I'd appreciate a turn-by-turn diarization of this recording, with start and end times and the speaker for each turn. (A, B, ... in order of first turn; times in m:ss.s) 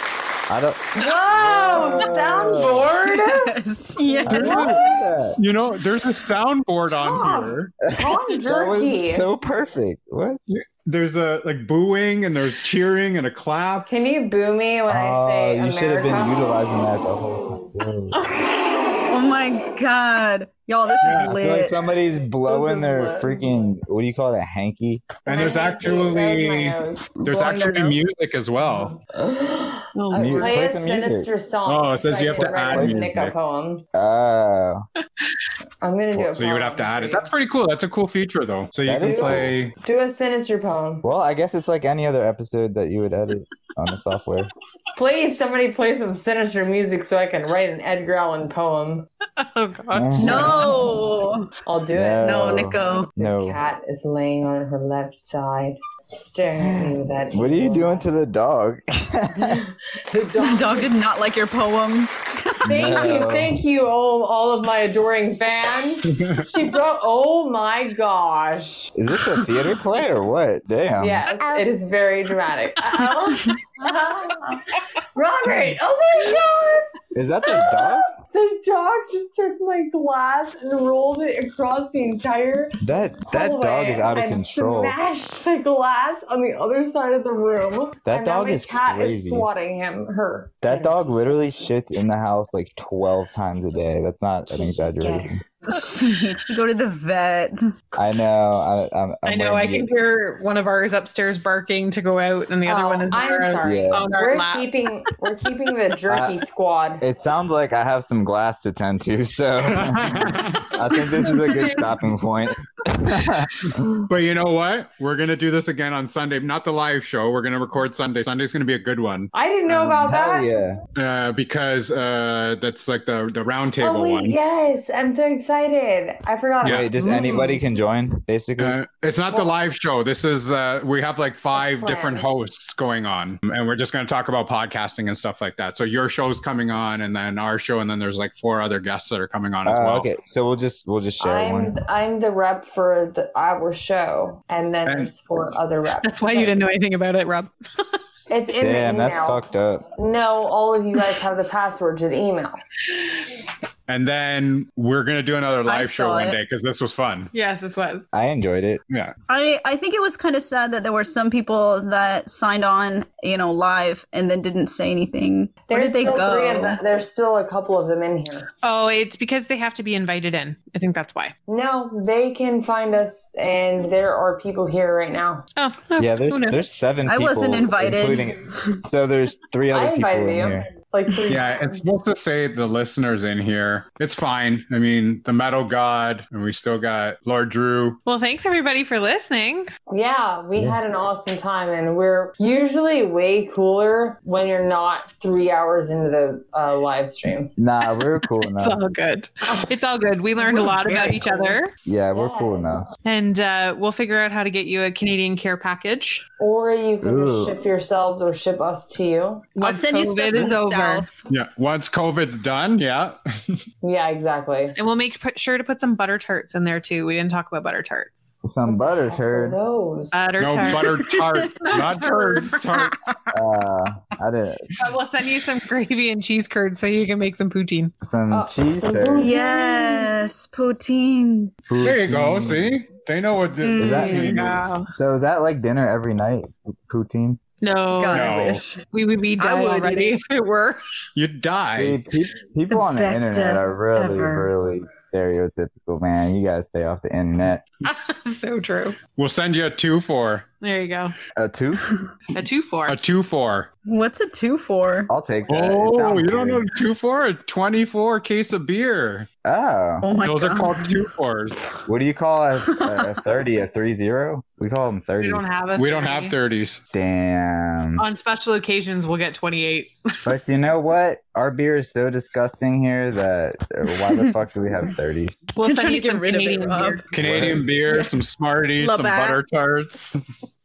0:00.5-0:02.9 A
0:01.0-0:05.0 B
0:03.0-0:04.8 C
0:04.3-0:05.4 A
0:04.3-0:04.8 D
0:05.4-0:07.7 D
0:06.9-0:09.3 B
0:07.9-0:10.5 A
0:10.6-0:13.9 D
0:13.9-0:16.5 B
0:14.9-0:18.2 A
0:19.0-0:21.9 C
0:21.0-0:21.3 D
0:21.2-0:25.2 A
0:22.4-0:23.5 B
0:25.2-0:29.0 D
0:25.3-0:27.1 B
0:27.2-0:28.0 C
0:29.0-0:33.8 B
0:30.0-0:30.7 E
0:30.1-0:31.3 A
0:31.7-0:33.3 D
0:32.3-0:33.4 A
0:33.9-0:34.8 A
0:35.8-0:37.3 B
0:36.1-0:39.7 D
0:38.8-0:39.6 A
0:39.1-0:41.0 B
0:41.0-0:44.5 A
0:45.0-0:49.1 B
0:49.4-0:50.6 E
0:49.9-0:50.7 A
0:50.2-0:51.5 C
0:50.2-0:50.7 B
0:51.6-0:58.0 B
0:51.9-0:53.6 A
0:52.2-0:53.1 C
0:56.6-0:59.6 A
0:59.4-1:00.9 B
1:00.4-1:03.2 C
1:02.6-1:03.6 A
1:02.7-1:08.9 B
1:09.0-1:11.2 A
1:11.0-1:16.9 B
1:17.1-1:18.1 A
1:17.5-1:31.0 B
1:22.8-1:25.0 A
1:28.1-1:29.5 A
1:30.6-1:35.4 A
1:34.5-1:35.4 B
1:35.7-1:37.6 C
1:37.9-1:39.9 A
1:39.2-1:44.8 E
1:42.7-1:47.0 B
1:43.6-1:44.1 A
1:46.1-1:46.4 A
1:47.0-1:54.0 A
1:49.6-1:50.7 D
1:51.3-1:51.8 E
1:54.1-1:59.3 D
1:59.3-2:00.5 B
1:59.7-2:00.8 A
2:01.0-2:04.4 D
2:03.8-2:07.6 B
2:06.6-2:06.9 D
2:06.6-2:08.8 A
2:08.6-2:20.1 D
2:11.5-2:12.4 B
2:19.6-2:21.8 A
2:21.2-2:26.6 B
2:24.9-2:25.1 D
2:26.0-2:28.0 E
2:28.3-2:29.4 B
2:28.6-2:29.9 A
2:30.0-2:32.6 B
2:33.9-2:37.3 D
2:35.7-2:36.4 C
2:37.3-2:38.0 E
2:38.1-2:38.8 A
2:39.3-2:46.8 C
2:45.7-2:48.5 B
2:48.6-2:51.3 E
2:51.5-2:55.5 B
2:55.6-2:56.6 E
2:56.0-3:00.7 A
2:57.1-2:58.8 C
2:59.7-3:01.8 B
3:01.3-3:08.0 D
3:08.1-3:09.7 E
3:09.9-3:17.5 B
3:17.6-3:18.8 A
3:18.4-3:21.7 E
3:20.5-3:21.6 C
3:21.8-3:22.9 A
3:22.1-3:22.7 B
3:23.0-3:26.2 E
3:26.4-3:29.5 B
3:27.0-3:27.6 A
3:29.6-3:31.1 E
3:29.6-3:31.2 C
3:31.3-3:33.2 D
3:33.8-3:34.8 B
3:34.8-3:38.4 E
3:38.4-3:39.7 A
3:38.7-3:40.2 B
3:40.1-3:41.1 E
3:40.4-3:43.0 D
3:41.0-3:41.8 C
3:41.6-3:42.6 E
3:42.4-3:42.9 C
3:43.3-3:45.2 A
3:44.8-3:47.9 E
3:48.0-3:49.4 A
3:48.3-3:50.2 B
3:49.2-3:51.5 C
3:51.7-3:52.7 A
3:51.8-3:54.6 D
3:53.6-3:54.4 C
3:53.8-3:54.2 A
3:53.9-3:54.9 E
3:54.9-3:57.4 A
3:57.6-4:00.8 E
3:58.0-3:58.8 C
3:58.1-3:58.6 D
3:59.4-4:00.2 C
4:01.2-4:02.0 D
4:01.7-4:07.6 A
4:02.7-4:04.5 C
4:07.8-4:09.0 E
4:09.2-4:10.5 D
4:10.6-4:11.1 E
4:11.4-4:11.9 A
4:12.3-4:13.0 E
4:12.9-4:13.7 D
4:13.9-4:15.1 C
4:15.1-4:16.6 A
4:15.5-4:19.3 D
4:19.4-4:20.1 A
4:20.0-4:21.0 C
4:20.2-4:21.7 D
4:21.8-4:25.5 A
4:22.7-4:23.1 C
4:25.2-4:26.4 E
4:25.8-4:26.8 D
4:26.9-4:28.0 A
4:28.0-4:30.2 E
4:30.2-4:35.5 A
4:34.0-4:34.3 C
4:35.6-4:37.1 E
4:35.6-4:37.0 C
4:37.1-4:40.2 D
4:37.2-4:37.6 A
4:38.8-4:39.4 C